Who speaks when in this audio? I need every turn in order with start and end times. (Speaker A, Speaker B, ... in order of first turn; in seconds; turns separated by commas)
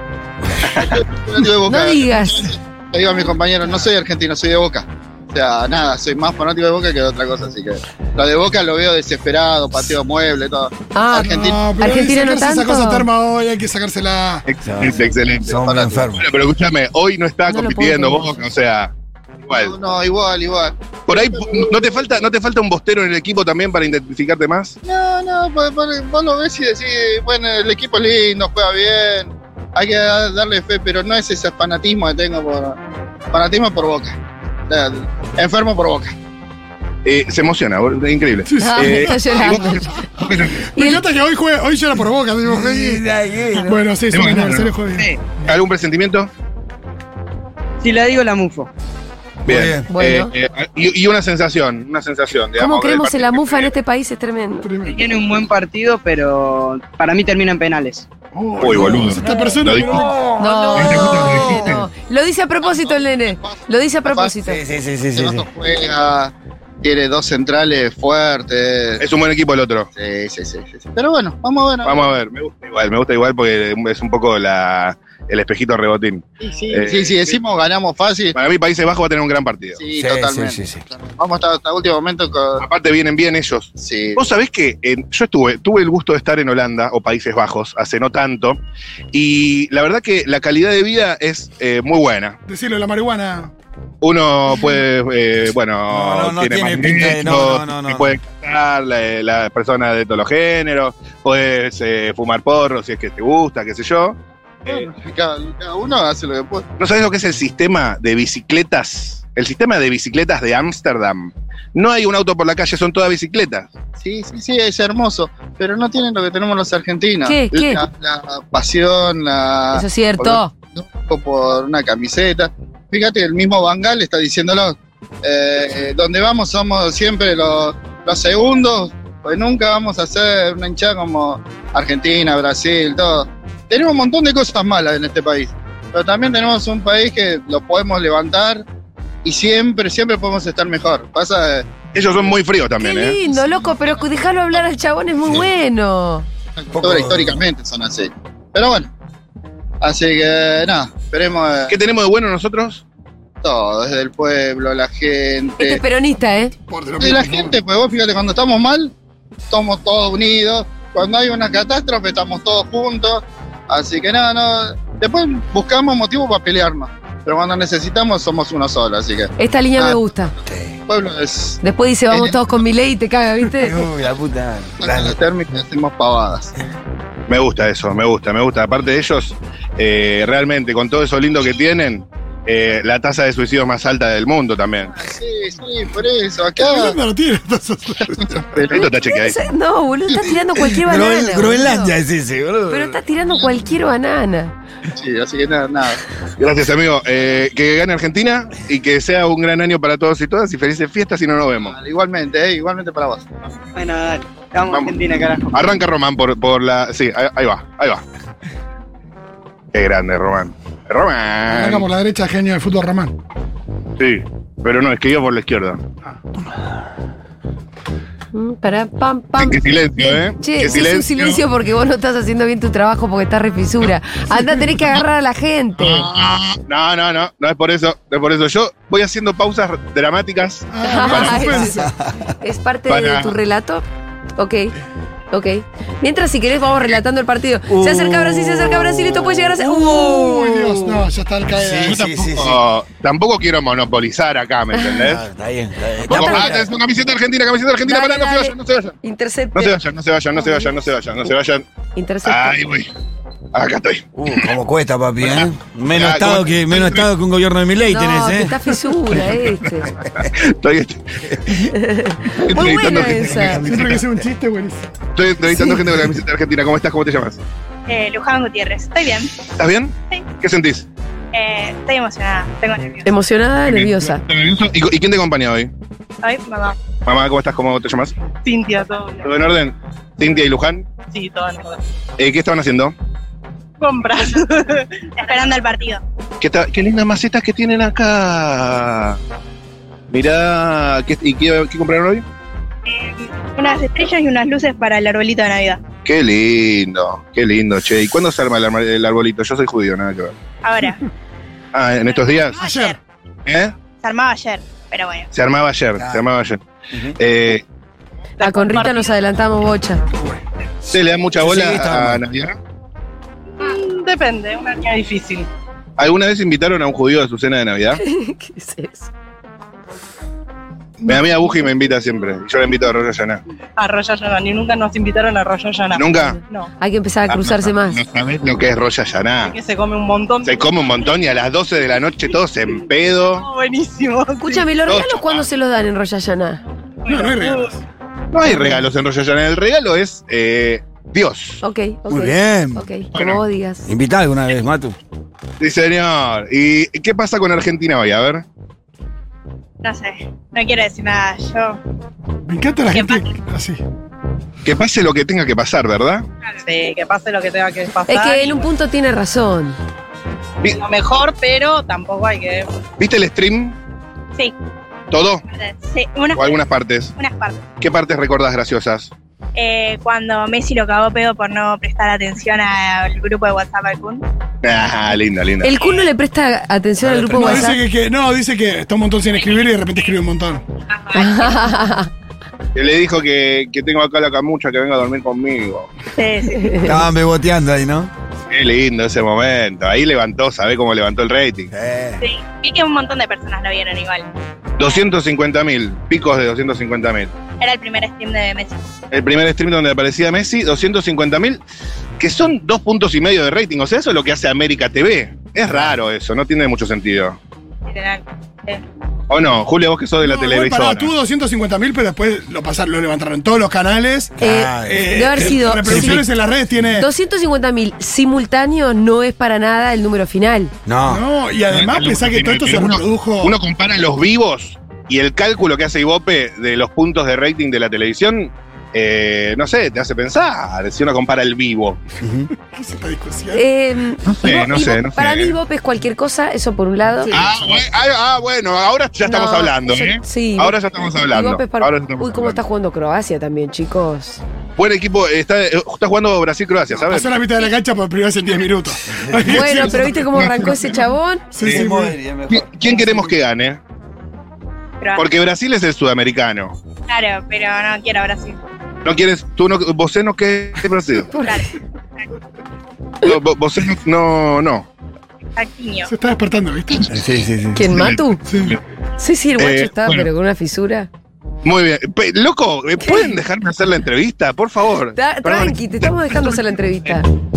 Speaker A: 0.6-11.6, Speaker B: 1.6-2.5, Speaker B: 10.9-13.1, Speaker C: 11.1-14.4, Speaker D: 14.5-18.9, Speaker E: 14.6-16.2, Speaker A: 15.6-16.1, Speaker B: 17.5-18.4, Speaker D: 19.4-19.7, Speaker A: 19.5-22.0, Speaker D: 21.1-24.8, Speaker A: 24.8-32.8, Speaker A: 33.3-36.1, Speaker D: 37.0-40.7, Speaker C: 38.5-39.4, Speaker B: 38.6-40.0, Speaker C: 40.7-43.0, Speaker B: 40.8-41.0, Speaker E: 42.5-43.7, Speaker C: 43.5-45.1, Speaker D: 44.1-44.8, Speaker F: 44.9-45.3, Speaker D: 45.4-46.3, Speaker F: 47.8-48.7, Speaker D: 49.4-53.7, Speaker E: 49.5-49.9, Speaker B: 49.9-50.3, Speaker B: 52.6-54.7, Speaker C: 54.6-55.0, Speaker F: 54.8-58.1, Speaker C: 58.3-60.2, Speaker D: 58.6-60.1, Speaker E: 59.9-60.8, Speaker B: 60.4-64.6, Speaker D: 60.7-61.9, Speaker A: 62.6-64.3, Speaker E: 64.4-65.5, Speaker A: 65.1-69.1, Speaker D: 69.0-69.9, Speaker A: 70.0-72.1, Speaker D: 71.8-77.4, Speaker A: 76.4-78.3, Speaker D: 78.3-79.8, Speaker A: 79.8-82.6, Speaker E: 80.0-80.8, Speaker D: 82.6-88.6, Speaker A: 83.8-84.2, Speaker D: 89.1-92.4, Speaker C: 92.5-93.5, Speaker D: 94.0-104.9, Speaker E: 95.9-98.2, Speaker A: 104.7-106.7, Speaker D: 106.8-113.7, Speaker A: 114.0-138.6, Speaker B: 117.2-117.8, Speaker B: 119.7-120.5, Speaker A: 139.2-141.7, Speaker D: 141.9-143.2, Speaker B: 142.8-146.3, Speaker A: 143.3-144.1, Speaker A: 146.6-148.9, Speaker E: 146.7-147.4, Speaker A: 149.8-151.8, Speaker D: 151.7-152.8, Speaker A: 153.4-155.8, Speaker B: 155.6-156.5, Speaker C: 156.7-157.6, Speaker A: 157.0-158.9, Speaker A: 159.5-170.0, Speaker B: 169.4-170.3, Speaker E: 170.5-170.7, Speaker A: 170.9-171.6, Speaker B: 171.6-173.8, Speaker A: 172.1-172.3, Speaker E: 173.6-175.2, Speaker A: 174.8-176.5, Speaker D: 177.3-184.9, Speaker A: 184.9-187.0, Speaker C: 186.6-188.5, Speaker A: 188.5-188.9, Speaker D: 188.6-189.5, Speaker B: 188.7-191.9, Speaker E: 190.6-193.0, Speaker B: 192.7-194.5, Speaker A: 194.9-196.0, Speaker D: 196.4-201.8, Speaker A: 201.6-203.3, Speaker F: 203.7-205.7, Speaker D: 205.5-208.0, Speaker D: 209.7-211.9, Speaker C: 211.5-213.1, Speaker D: 214.0-215.8, Speaker B: 218.3-226.1, Speaker D: 219.4-221.4, Speaker D: 225.8-231.7, Speaker C: 230.7-231.9, Speaker B: 230.8-231.8, Speaker E: 231.8-232.1, Speaker B: 232.4-233.8, Speaker D: 232.9-233.4, Speaker B: 234.4-234.7, Speaker B: 235.3-240.9, Speaker E: 237.7-239.4, Speaker C: 239.6-242.0, Speaker E: 241.5-242.6, Speaker D: 241.8-245.2, Speaker B: 244.7-245.0, Speaker E: 245.0-246.7, Speaker B: 246.1-246.6, Speaker D: 246.1-248.9, Speaker B: 247.8-249.8, Speaker D: 249.5-251.7, Speaker B: 250.4-250.7, Speaker B: 251.9-252.6, Speaker D: 252.2-252.9, Speaker D: 253.5-254.4, Speaker E: 254.1-258.7, Speaker D: 255.2-257.1, Speaker B: 257.9-259.9, Speaker D: 259.9-261.6, Speaker B: 261.7-263.7, Speaker D: 262.3-264.0, Speaker C: 263.5-264.9, Speaker D: 265.1-267.4, Speaker G: 267.9-269.4, Speaker D: 269.6-270.9, Speaker G: 271.3-273.1, Speaker B: 273.0-274.2, Speaker D: 273.7-275.7, Speaker G: 276.2-276.8, Speaker D: 277.0-278.1, Speaker D: 279.2-280.9, Speaker D: 282.2-282.9, Speaker G: 285.2-286.0, Speaker D: 286.4-289.2, Speaker D: 290.1-292.2, Speaker G: 292.9-295.8, Speaker D: 296.0-300.3, Speaker G: 300.6-301.0, Speaker D: 301.7-302.7, Speaker G: 302.1-303.0, Speaker C: 302.6-303.0, Speaker D: 303.4-303.7, Speaker G: 304.0-305.3, Speaker D: 305.3-306.6, Speaker E: 306.0-306.3, Speaker D: 307.1-307.6, Speaker B: 308.4-310.0, Speaker H: 308.4-309.0, Speaker D: 310.9-312.6, Speaker E: 311.4-312.2, Speaker H: 313.6-315.4, Speaker D: 316.0-318.0, Speaker B: 318.0-319.1, Speaker D: 321.0-323.4, Speaker H: 323.9-325.9, Speaker D: 325.9-326.4, Speaker B: 326.8-328.0, Speaker D: 327.3-329.5, Speaker H: 329.6-330.5, Speaker D: 330.4-333.5, Speaker B: 334.4-336.6, Speaker D: 334.8-335.5, Speaker C: 337.1-337.8, Speaker D: 338.3-341.6, Speaker B: 338.4-338.8, Speaker B: 341.6-343.9, Speaker E: 342.1-342.8, Speaker D: 343.1-343.4, Speaker E: 343.9-344.9, Speaker D: 345.6-348.4, Speaker G: 349.8-351.8, Speaker C: 352.4-353.8, Speaker G: 352.9-353.3, Speaker D: 354.6-356.3, Speaker H: 356.9-358.5, Speaker B: 358.1-359.8, Speaker H: 360.8-362.6, Speaker D: 363.0-363.8, Speaker D: 365.1-365.4, Speaker G: 365.5-366.6, Speaker D: 366.3-367.1, Speaker G: 367.1-367.7, Speaker D: 367.8-369.1, Speaker G: 369.5-374.2, Speaker D: 374.6-375.8, Speaker B: 375.6-377.8, Speaker E: 377.0-377.7, Speaker C: 377.3-380.6, Speaker G: 380.9-381.5, Speaker B: 381.1-382.1, Speaker D: 382.7-385.9, Speaker G: 386.1-387.0, Speaker B: 386.6-387.0, Speaker E: 386.8-388.1, Speaker D: 388.5-391.7, Speaker E: 391.7-392.2, Speaker G: 392.2-394.3, Speaker D: 394.8-397.3, Speaker G: 397.6-398.9, Speaker D: 399.1-401.6, Speaker D: 402.2-407.4, Speaker G: 407.9-408.8, Speaker D: 409.3-411.1, Speaker C: 410.2-417.1, Speaker E: 414.4-416.2, Speaker B: 414.4-416.3, Speaker B: 417.0-420.7, Speaker E: 420.9-421.2, Speaker C: 421.1-423.6, Speaker D: 421.7-432.0, Speaker E: 432.2-432.5, Speaker C: 432.5-433.6, Speaker B: 433.5-437.3, Speaker D: 434.2-435.6, Speaker C: 437.2-437.7, Speaker D: 437.3-442.6, Speaker B: 439.2-444.4, Speaker D: 444.8-447.4, Speaker C: 446.9-450.8, Speaker E: 449.3-449.5, Speaker B: 449.4-451.5, Speaker C: 451.5-452.2, Speaker E: 451.6-453.3, Speaker D: 452.5-453.8, Speaker G: 455.0-455.2, Speaker D: 455.1-456.8, Speaker G: 457.1-458.6, Speaker D: 459.0-461.3, Speaker B: 461.3-461.6, Speaker G: 461.4-461.7, Speaker D: 463.2-464.9, Speaker G: 465.6-466.1, Speaker C: 466.1-467.2, Speaker E: 467.1-467.9, Speaker B: 467.7-468.4, Speaker D: 467.9-468.8, Speaker C: 468.4-468.8, Speaker B: 469.2-471.1, Speaker D: 469.6-470.3, Speaker D: 471.6-476.4, Speaker B: 473.0-473.4, Speaker B: 475.1-477.2